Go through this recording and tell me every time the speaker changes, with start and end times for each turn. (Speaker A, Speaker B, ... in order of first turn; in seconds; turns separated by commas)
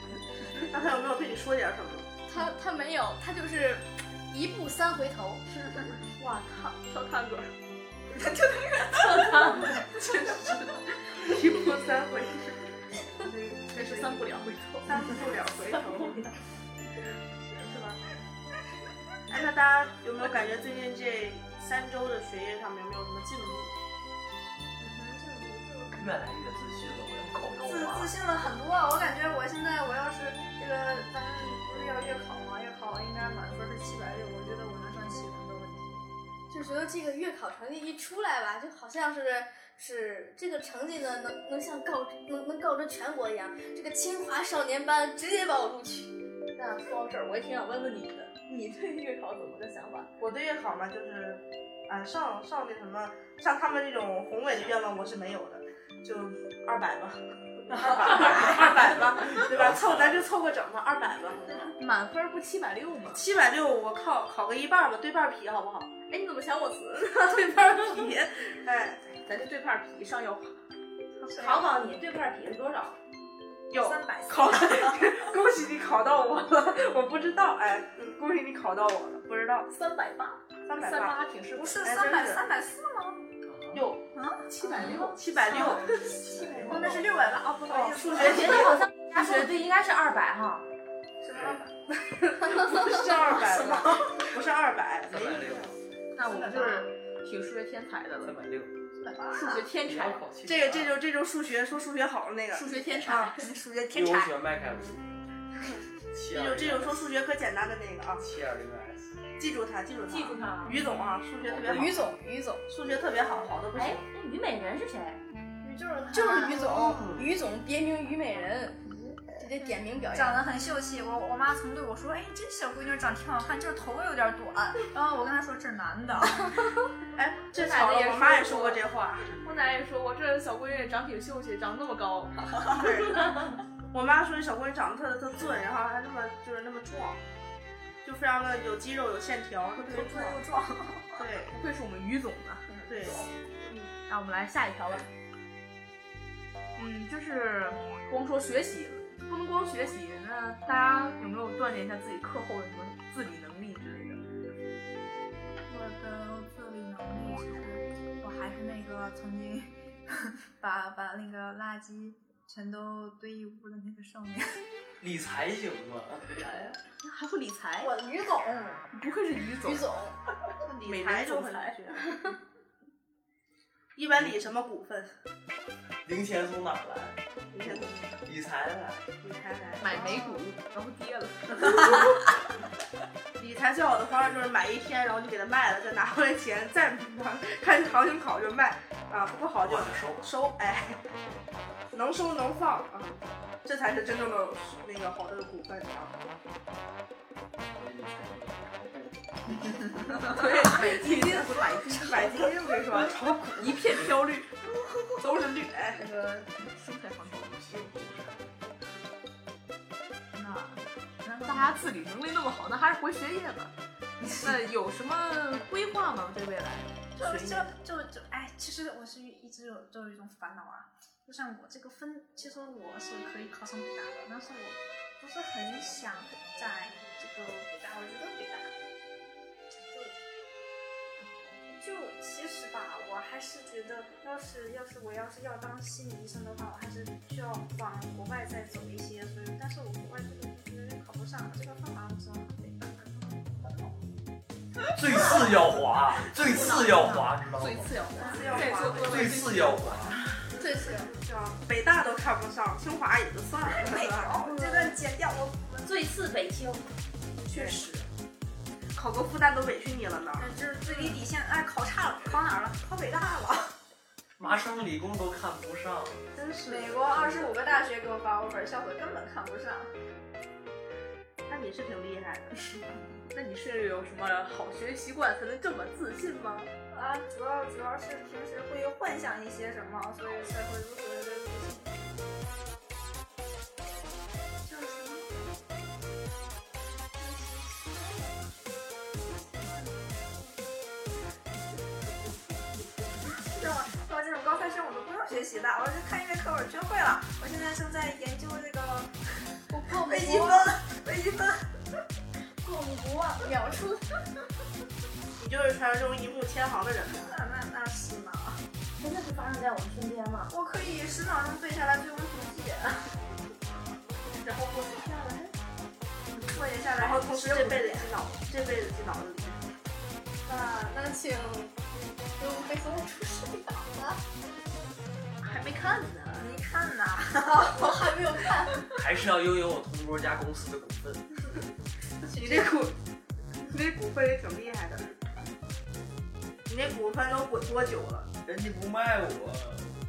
Speaker A: 0.7-2.1, Speaker B: 2.3-5.4, Speaker C: 5.6-5.9, Speaker D: 6.2-7.5, Speaker C: 8.1-9.7, Speaker E: 9.2-9.6, Speaker A: 11.2-12.6, Speaker C: 13.2-14.2, Speaker D: 13.7-15.0, Speaker A: 14.8-16.3, Speaker A: 17.5-18.0, Speaker A: 19.3-23.8, Speaker C: 24.8-26.0, Speaker F: 25.9-28.1, Speaker C: 27.6-36.0, Speaker B: 36.5-46.1, Speaker D: 46.5-50.1, Speaker A: 50.2-61.7, Speaker F: 58.9-60.2, Speaker D: 61.8-63.2, Speaker A: 63.1-65.9, Speaker D: 66.1-67.9, Speaker A: 67.7-69.1, Speaker D: 69.2-70.5, Speaker C: 71.2-71.7, Speaker E: 71.3-73.0, Speaker A: 73.7-79.7, Speaker C: 73.7-75.2, Speaker D: 79.7-81.9, Speaker A: 80.7-81.2, Speaker C: 81.5-83.2, Speaker A: 81.8-82.4, Speaker F: 83.5-83.8, Speaker A: 83.7-84.0, Speaker C: 84.1-84.4, Speaker D: 84.5-85.8, Speaker A: 84.7-86.0, Speaker C: 86.3-88.7, Speaker A: 87.7-88.8, Speaker E: 88.2-90.6, Speaker C: 91.2-91.7, Speaker A: 92.0-95.7, Speaker C: 93.6-94.1, Speaker F: 95.1-95.8, Speaker D: 96.2-98.4, Speaker F: 98.2-98.9, Speaker C: 99.0-99.6, Speaker D: 99.3-100.2, Speaker F: 99.8-101.0, Speaker A: 100.4-102.7, Speaker D: 102.5-103.5, Speaker C: 103.0-104.3, Speaker F: 103.9-105.1, Speaker F: 106.1-107.0, Speaker A: 106.3-108.2, Speaker F: 108.2-109.2, Speaker A: 109.4-112.0, Speaker E: 110.1-110.8, Speaker F: 111.5-112.0, Speaker B: 111.7-112.6, Speaker A: 112.7-114.0, Speaker E: 113.7-115.2, Speaker C: 115.6-116.9, Speaker B: 116.1-118.8, Speaker F: 116.5-117.3, Speaker B: 119.3-120.4, Speaker C: 120.1-126.6, Speaker A: 127.2-129.3, Speaker D: 127.5-128.8, Speaker D: 129.4-132.8, Speaker C: 132.6-132.9, Speaker A: 132.7-133.2, Speaker A: 133.9-137.2, Speaker A: 138.0-140.4, Speaker C: 139.7-141.2, Speaker A: 141.2-141.5, Speaker D: 141.5-142.7, Speaker C: 142.7-143.2, Speaker A: 142.9-143.3, Speaker D: 144.1-145.1, Speaker D: 146.8-154.2, Speaker C: 155.7-164.6, Speaker F: 165.0-166.5, Speaker D: 167.0-167.9, Speaker C: 167.8-168.8, Speaker D: 168.9-169.8, Speaker B: 169.6-170.2, Speaker A: 170.7-172.1, Speaker D: 170.8-171.8, Speaker A: 173.9-175.1, Speaker F: 176.0-179.1, Speaker A: 177.5-178.1, Speaker A: 179.2-180.1, Speaker D: 179.8-182.2, Speaker A: 183.4-191.0, Speaker F: 189.6-190.2, Speaker A: 191.9-196.2, Speaker F: 197.7-199.2, Speaker D: 200.2-203.0, Speaker A: 201.1-201.4, Speaker A: 202.0-203.8, Speaker D: 203.6-204.5, Speaker A: 205.2-206.0, Speaker D: 205.9-207.6, Speaker F: 207.4-208.5, Speaker D: 210.3-213.7, Speaker D: 214.2-217.7, Speaker C: 217.2-228.7, Speaker C: 229.9-230.1, Speaker C: 231.6-243.1, Speaker F: 244.9-247.9, Speaker D: 246.5-250.1, Speaker C: 248.2-248.9, Speaker A: 248.2-249.4, Speaker F: 248.9-250.3, Speaker B: 250.6-251.1, Speaker C: 250.6-251.1, Speaker A: 251.2-254.5, Speaker C: 253.7-255.9, Speaker E: 255.8-256.9, Speaker A: 257.4-258.1, Speaker C: 257.5-257.8, Speaker A: 258.9-260.5, Speaker C: 260.4-263.7, Speaker F: 264.4-266.2, Speaker A: 266.3-267.7, Speaker C: 266.7-269.9, Speaker A: 271.5-272.6, Speaker D: 273.3-276.7, Speaker C: 276.9-282.1, Speaker C: 284.6-285.4, Speaker C: 287.2-288.4, Speaker C: 289.4-290.1, Speaker C: 293.4-299.1, Speaker B: 299.7-300.7, Speaker C: 299.9-301.7, Speaker B: 302.6-304.0, Speaker A: 305.4-307.3, Speaker C: 307.2-308.6, Speaker E: 309.0-310.5, Speaker C: 310.5-313.1, Speaker D: 314.3-315.5, Speaker C: 316.4-318.1, Speaker A: 316.9-319.6, Speaker B: 320.4-321.8, Speaker B: 322.4-324.1, Speaker D: 325.4-326.5, Speaker C: 326.4-328.2, Speaker B: 327.6-328.9, Speaker F: 328.9-331.2, Speaker A: 332.3-332.9, Speaker A: 333.6-335.1, Speaker A: 336.7-338.3, Speaker F: 338.4-339.9